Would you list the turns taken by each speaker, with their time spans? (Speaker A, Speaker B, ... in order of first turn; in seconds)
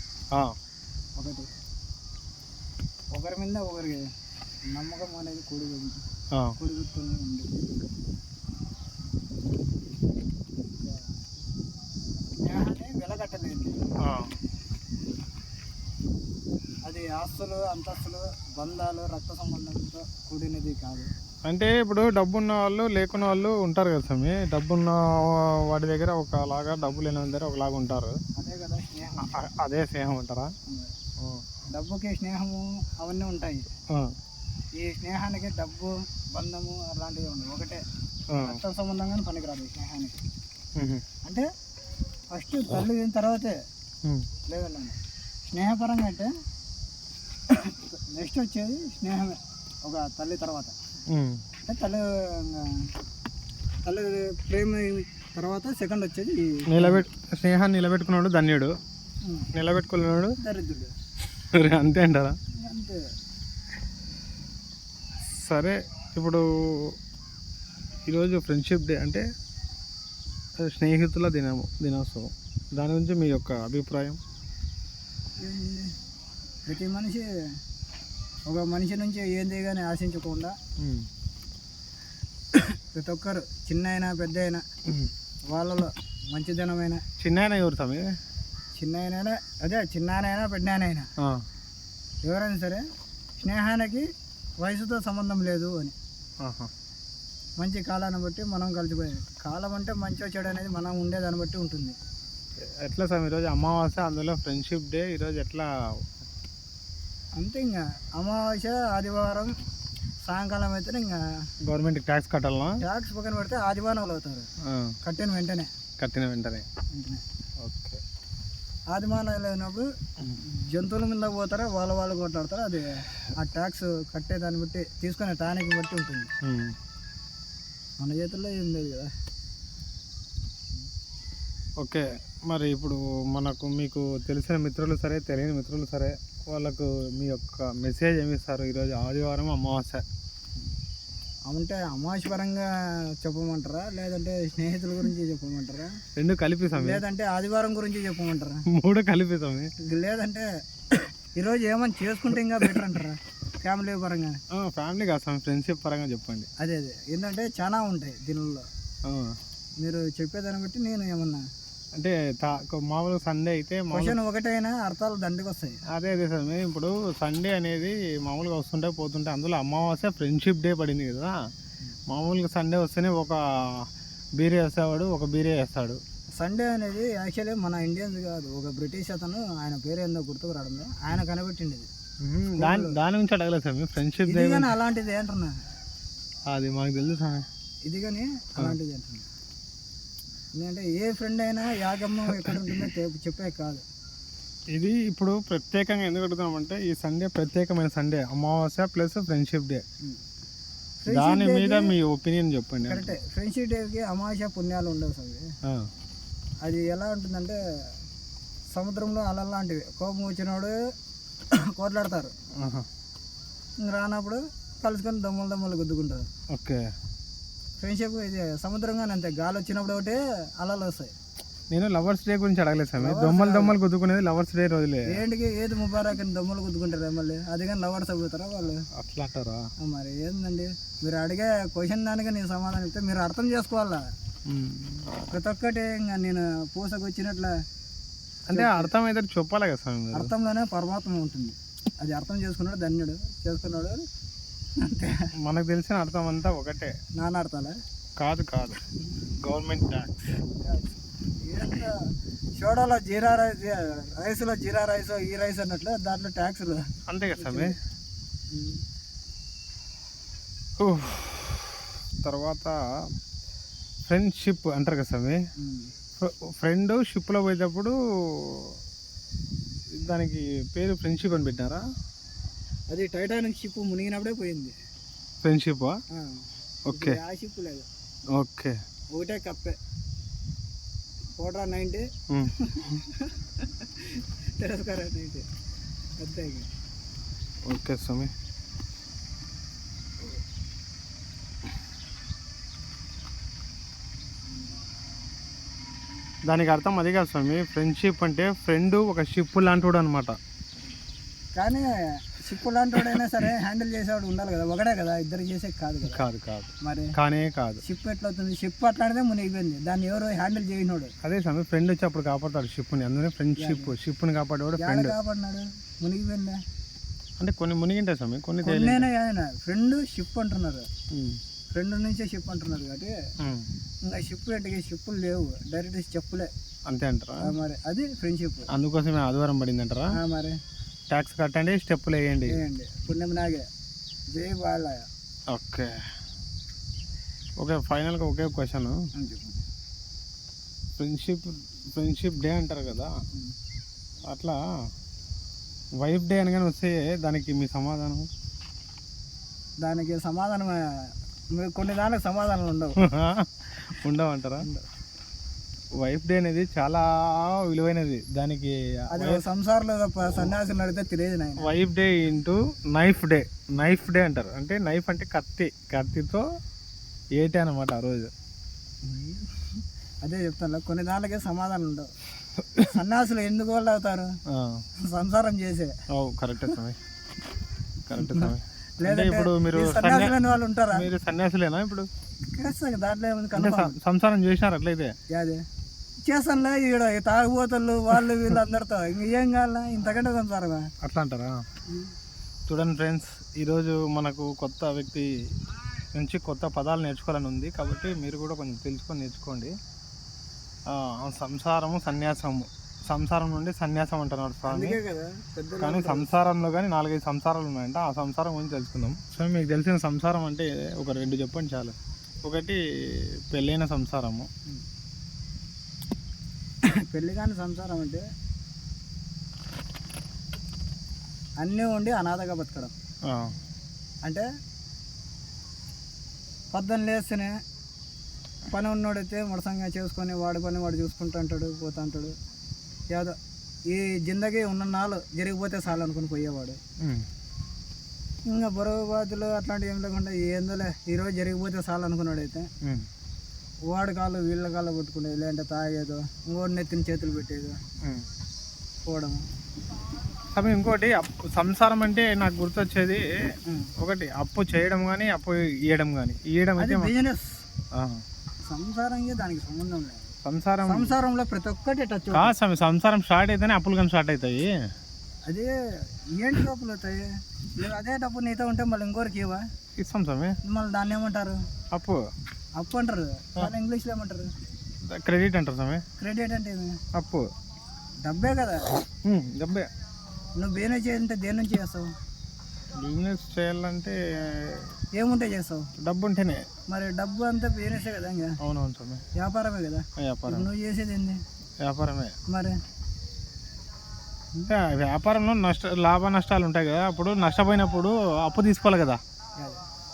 Speaker A: 1.1-1.5, 3.1-4.0, 4.7-6.0, 6.6-7.8, 12.4-13.8, 16.9-21.1, 28.4-29.4, 30.7-30.9, 31.7-33.7, 34.8-37.8, 38.4-40.2, 42.3-43.6, 44.5-45.0, 45.5-46.3, 47.5-50.7, 51.7-52.9, 53.8-57.0, 60.4-60.9, 62.6-63.0, 75.4-75.9, 76.7-77.3, 78.5-80.5, 82.5-84.6, 85.5-87.0, 88.8-91.1, 92.2-92.8, 93.4-94.0, 94.6-95.9, 97.6-102.0, 107.3-109.5, 110.2-111.2, 112.8-114.5, 115.0-115.7, 116.9-117.2, 118.9-119.9, 120.4-126.3, 128.0-129.1, 141.5-142.7, 143.2-145.9, 146.7-148.6, 149.8-154.4, 156.6-158.7, 159.8-161.4, 163.9-165.8, 176.4-181.9, 182.5-183.0, 184.3-185.6, 187.9-189.3, 190.6-193.8, 201.0-201.9, 202.9-205.4, 206.6-207.6, 208.7-210.8, 211.7-212.3, 213.8-216.2, 217.8-221.1, 223.0-223.8, 225.1-228.8, 229.8-234.0, 235.3-237.5, 238.5-238.9, 240.1-244.0, 244.8-245.3, 247.2-247.8, 250.6-252.0, 252.6-257.8, 258.5-258.8, 265.6-265.9, 272.9-274.7, 276.1-277.9, 279.1-279.8, 281.4-282.1, 282.6-285.4, 286.2-286.7, 301.6-306.2, 306.8-307.1, 307.8-311.1, 313.6-313.9, 314.8-316.6, 318.6-320.9, 321.8-323.1, 324.1-326.5, 327.4-328.7, 330.1-330.6, 332.5-333.6, 334.3-335.1, 339.1-339.6, 349.8-353.0, 359.1-361.7, 369.0-372.1, 372.8-374.3, 375.0-375.9, 378.2-381.1, 382.5-383.9, 385.3-385.6, 386.2-390.9, 404.6-406.3, 416.9-418.2, 421.6-422.9, 426.7-427.6, 428.7-432.3, 433.9-436.8, 438.5-442.7, 443.9-447.8, 449.0-449.4, 453.7-453.9, 456.8-457.6, 458.7-460.3, 460.9-462.5, 466.4-467.2, 467.8-469.6, 470.6-471.6, 472.8-474.5, 476.2-477.0, 478.2-478.9, 480.6-482.1, 485.1-485.9, 486.9-488.6, 489.4-491.4, 492.5-492.7
Speaker B: 14.0-14.3, 21.5-28.2, 29.2-30.5, 38.3-38.6, 40.8-41.0, 51.1-51.4, 56.7-58.7, 59.5-60.3, 61.4-62.4, 65.3-67.0, 68.1-69.2, 70.6-74.2, 80.8-81.1, 87.2-88.1, 96.4-96.7, 102.6-105.7, 111.6-112.8, 114.6-114.9, 116.0-116.7, 117.6-118.0, 126.4-126.8, 131.8-140.0, 146.2-147.0, 148.7-149.7, 154.5-156.5, 159.0-159.4, 162.0-164.1, 165.9-171.4, 172.1-176.0, 182.2-184.7, 186.5-187.4, 192.2-192.5, 194.7-199.8, 201.1-203.1, 212.6-212.8, 216.5-216.8, 221.7-225.2, 228.9-229.7, 234.4-235.3, 238.5-240.3, 245.4-246.9, 248.2-248.8, 249.4-250.4, 257.1-257.8, 260.8-262.8, 264.1-265.4, 266.2-268.8, 270.0-271.8, 275.4-276.0, 276.9-277.2, 278.3-278.8, 287.6-288.3, 296.5-300.4, 306.1-307.8, 311.2-315.1, 317.4-319.1, 321.1-321.4, 323.4-323.7, 326.9-327.5, 328.7-330.1, 331.1-332.6, 335.5-335.9, 337.6-339.1, 341.0-343.1, 344.3-344.6, 346.0-348.3, 353.0-354.6, 356.0-359.4, 361.6-366.4, 367.4-368.3, 374.5-374.8, 376.1-377.0, 378.1-380.3, 380.9-382.1, 383.6-385.1, 391.0-391.6, 392.7-395.3, 396.1-399.7, 400.9-405.0, 405.8-412.8, 413.5-414.5, 423.3-423.5, 437.0-437.2, 450.5-453.2, 454.0-457.1, 457.9-458.2, 460.4-461.1, 462.3-464.8, 470.0-470.6, 471.9-472.2, 475.0-476.0, 477.1-477.4, 479.2-479.9, 483.0-484.9, 486.0-486.6, 488.6-489.2, 490.2-490.7, 491.8-492.3, 494.7-499.2